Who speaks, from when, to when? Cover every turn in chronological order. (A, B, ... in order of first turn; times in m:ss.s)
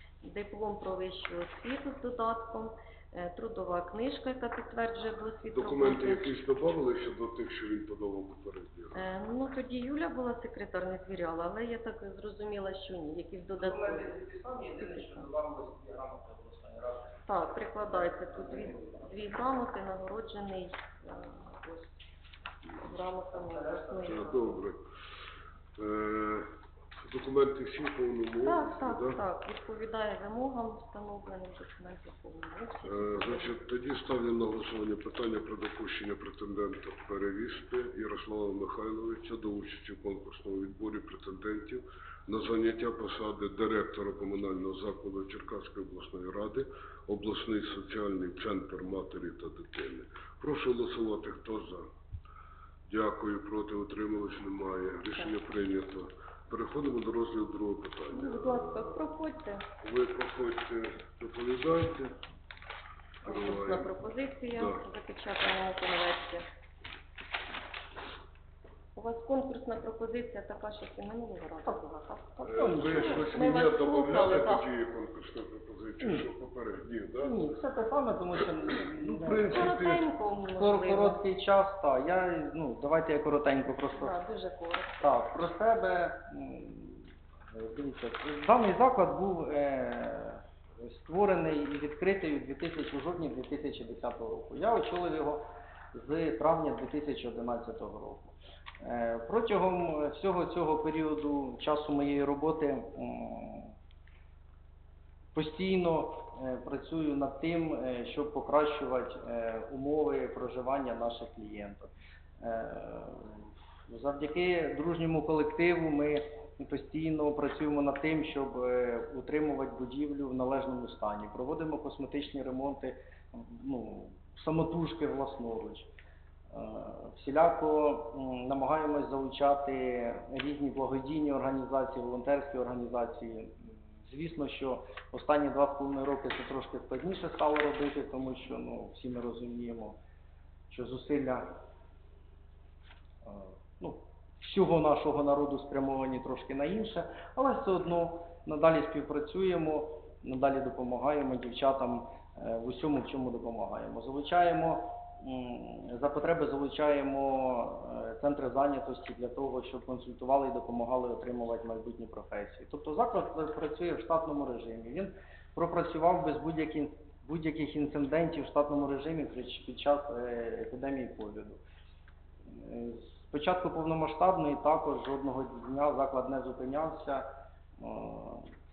0:00.2-0:06.4 A
0:05.5-0:09.1 B
0:08.9-0:14.1 A
0:13.6-0:19.0 C
0:14.7-0:15.3 A
0:17.2-0:22.0 A
0:22.7-0:24.6 A
0:23.3-0:24.2 C
0:24.1-0:24.8 B
0:25.8-0:26.5 B
0:27.0-0:29.2 B
0:28.4-0:33.6 A
0:32.8-0:51.8 B
0:52.9-0:59.1 B
0:58.1-0:59.7 A
0:59.8-1:02.2 B
1:03.2-1:03.9 B
1:03.2-1:06.4 A
1:04.5-1:04.8 B
1:08.9-1:14.7 A
1:12.4-1:13.4 C
1:12.4-1:17.5 B
1:17.2-1:19.7 C
1:18.7-1:20.1 B
1:19.5-1:21.2 A
1:20.6-1:24.2 C
1:23.9-1:25.4 A
1:25.0-1:43.7 C
1:45.3-2:05.9 C
2:06.5-2:20.0 C
2:20.7-2:21.5 C
2:23.2-2:51.6 C
2:52.5-2:57.3 C
2:57.8-2:58.5 C